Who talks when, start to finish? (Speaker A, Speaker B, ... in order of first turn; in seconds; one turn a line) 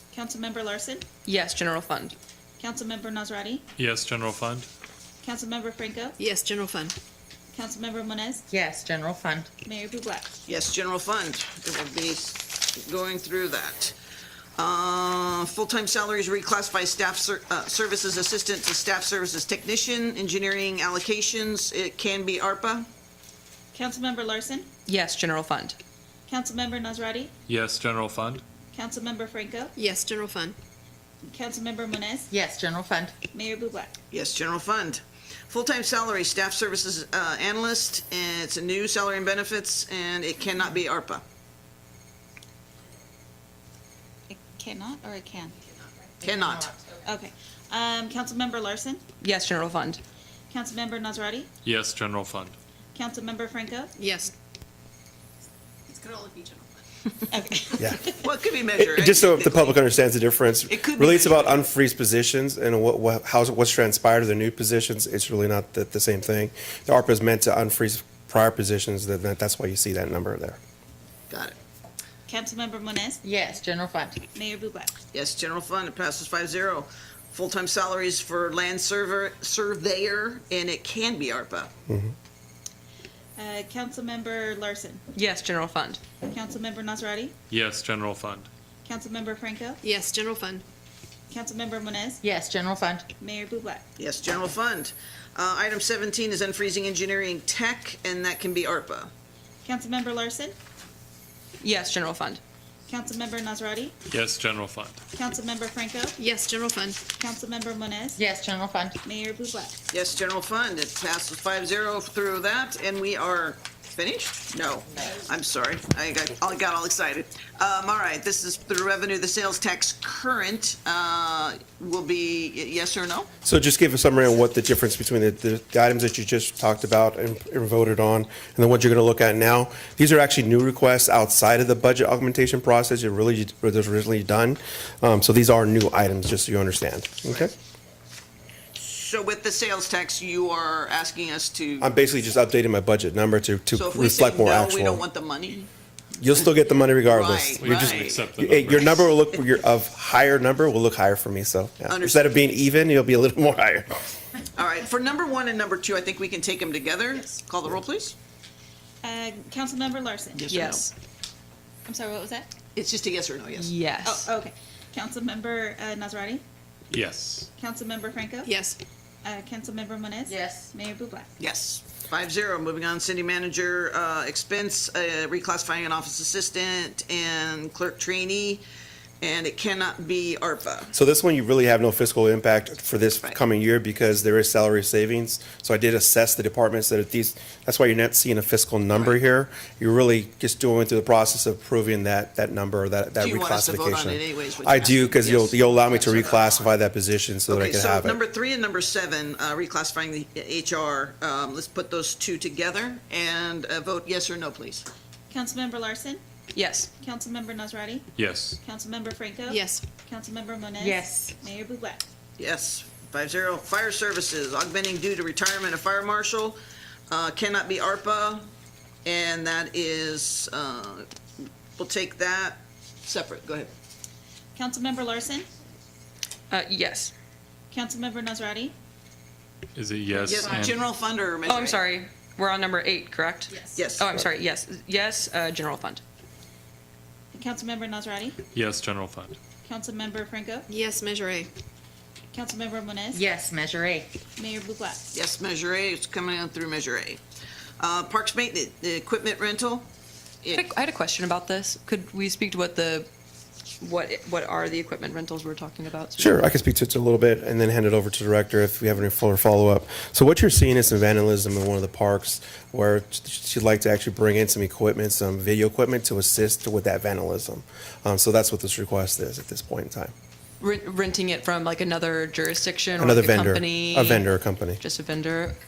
Speaker A: 0.1-1.1
Speaker B: 1.2-2.1
Speaker A: 2.6-3.6
Speaker C: 3.8-4.7
Speaker A: 5.2-6.2
Speaker D: 6.2-6.9
Speaker A: 7.5-8.4
Speaker E: 8.5-9.5
Speaker A: 9.6-10.3
Speaker F: 10.5-14.0
Speaker F: 14.6-22.9
Speaker A: 23.7-24.7
Speaker B: 24.9-25.8
Speaker A: 26.3-27.3
Speaker C: 27.5-28.4
Speaker A: 28.7-29.7
Speaker D: 29.8-30.6
Speaker A: 31.3-32.3
Speaker E: 32.3-33.2
Speaker A: 33.2-33.9
Speaker F: 34.1-41.2
Speaker A: 44.3-45.5
Speaker E: 46.2-46.8
Speaker F: 46.2-46.7
Speaker A: 47.0-49.0
Speaker B: 49.2-50.0
Speaker A: 50.5-51.5
Speaker C: 51.6-52.5
Speaker A: 53.0-53.9
Speaker D: 54.0-54.3
Speaker D: 55.9-56.7
Speaker A: 57.3-58.1
Speaker G: 57.8-58.1
Speaker F: 58.2-59.8
Speaker G: 58.7-70.6
Speaker F: 60.7-61.6
Speaker F: 71.3-71.6
Speaker A: 72.3-73.2
Speaker E: 73.2-74.3
Speaker A: 74.3-74.9
Speaker F: 75.1-81.7
Speaker G: 81.9-82.1
Speaker A: 83.4-85.0
Speaker B: 85.2-86.0
Speaker A: 86.2-87.3
Speaker C: 87.5-88.5
Speaker A: 88.8-89.8
Speaker D: 89.8-90.6
Speaker A: 91.3-92.2
Speaker E: 92.2-93.1
Speaker A: 93.2-93.8
Speaker F: 94.0-99.1
Speaker A: 99.7-100.5
Speaker B: 101.6-102.4
Speaker A: 102.9-103.9
Speaker C: 104.1-105.0
Speaker A: 105.1-106.2
Speaker D: 106.2-107.0
Speaker A: 107.1-108.2
Speaker E: 108.2-109.0
Speaker A: 109.0-109.8
Speaker F: 109.9-123.3
Speaker G: 123.4-137.5
Speaker F: 138.8-141.9
Speaker G: 141.8-145.1
Speaker F: 143.7-145.7
Speaker G: 146.2-153.9
Speaker F: 147.0-148.2
Speaker C: 147.6-149.1
Speaker F: 151.9-152.3
Speaker F: 154.6-158.2
Speaker A: 159.0-160.5
Speaker F: 160.3-160.9
Speaker B: 160.5-160.9
Speaker A: 161.9-162.5
Speaker F: 162.8-163.7
Speaker B: 163.6-164.3
Speaker A: 164.1-166.4
Speaker C: 166.9-167.5
Speaker A: 167.6-168.6
Speaker D: 168.4-168.8
Speaker A: 169.2-171.3
Speaker E: 170.3-170.7
Speaker F: 171.4-178.6
Speaker F: 179.2-180.9
Speaker G: 180.9-198.2
Speaker F: 193.2-196.7
Speaker F: 197.5-204.9
Speaker A: 205.3-206.2
Speaker B: 206.5-206.9
Speaker A: 207.0-208.1
Speaker C: 208.2-208.6
Speaker A: 208.6-212.0
Speaker D: 209.5-209.8
Speaker E: 210.8-211.4
Speaker F: 212.4-216.6
Speaker F: 217.1-218.5
Speaker F: 219.1-221.1
Speaker F: 221.8-223.7
Speaker A: 224.6-225.5
Speaker B: 226.5-227.1
Speaker A: 227.7-228.7
Speaker C: 229.8-230.8
Speaker E: 230.1-230.6
Speaker F: 230.2-231.8
Speaker B: 231.5-236.0
Speaker E: 233.5-233.9
Speaker F: 233.8-234.1
Speaker A: 237.3-238.4
Speaker C: 238.5-239.4
Speaker A: 239.6-240.7
Speaker D: 240.7-241.5
Speaker A: 242.3-243.2
Speaker E: 243.1-244.2
Speaker A: 244.3-245.1
Speaker F: 245.1-247.2
Speaker F: 247.8-249.9
Speaker B: 250.5-253.1
Speaker B: 253.8-256.4
Speaker G: 256.2-270.1
Speaker B: 270.6-275.6
Speaker G: 273.0-274.8